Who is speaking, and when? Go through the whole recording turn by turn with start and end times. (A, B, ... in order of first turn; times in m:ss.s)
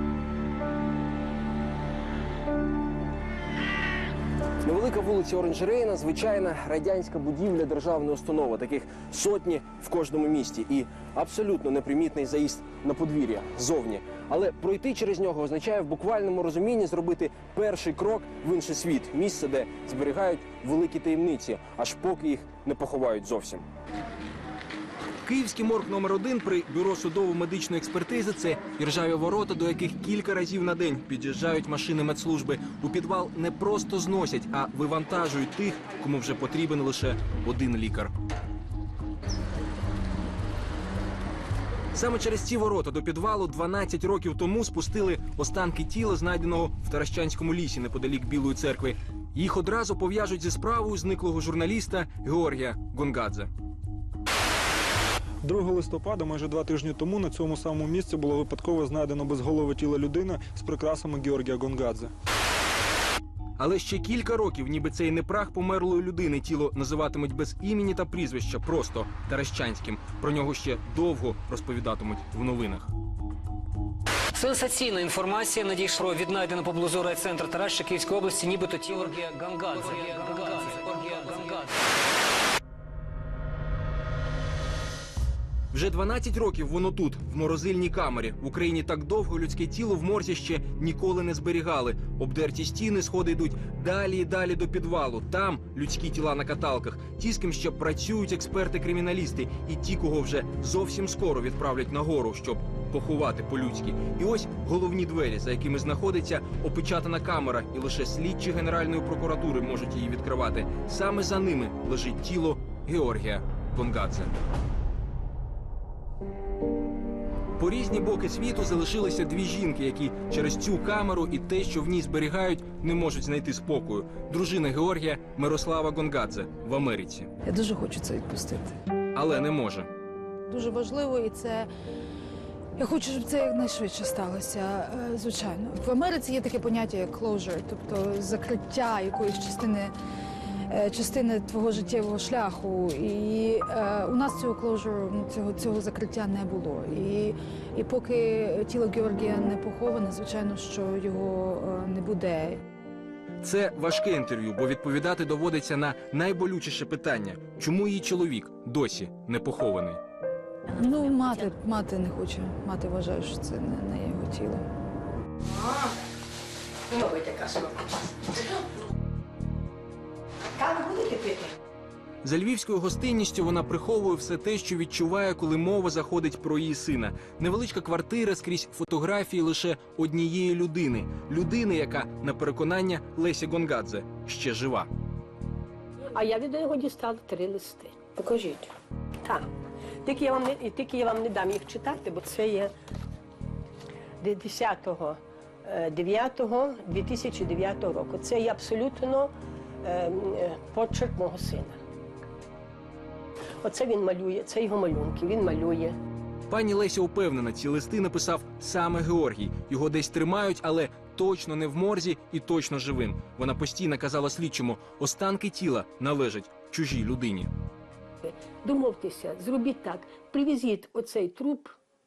0:04.6-0:23.6 A
0:25.2-0:38.1 A
0:41.9-0:53.5 A
0:55.4-1:02.1 B
1:03.6-1:12.9 A
1:14.3-1:21.7 C
1:25.7-1:54.3 A
1:57.6-2:07.3 A
2:07.4-2:08.8 D
2:09.1-2:09.9 A
2:10.5-2:11.7 D
2:12.8-2:19.9 D
2:20.7-2:32.6 D
2:33.4-2:40.0 A
2:40.7-2:44.7 D
2:46.9-2:48.5 E
2:50.5-2:51.5 E
2:52.2-3:04.9 A
3:06.1-3:08.7 E
3:09.2-3:09.5 E
3:10.0-3:12.7 E
3:14.2-3:21.8 E
3:23.6-3:26.0 E
3:26.5-3:37.5 A
3:38.2-3:41.7 E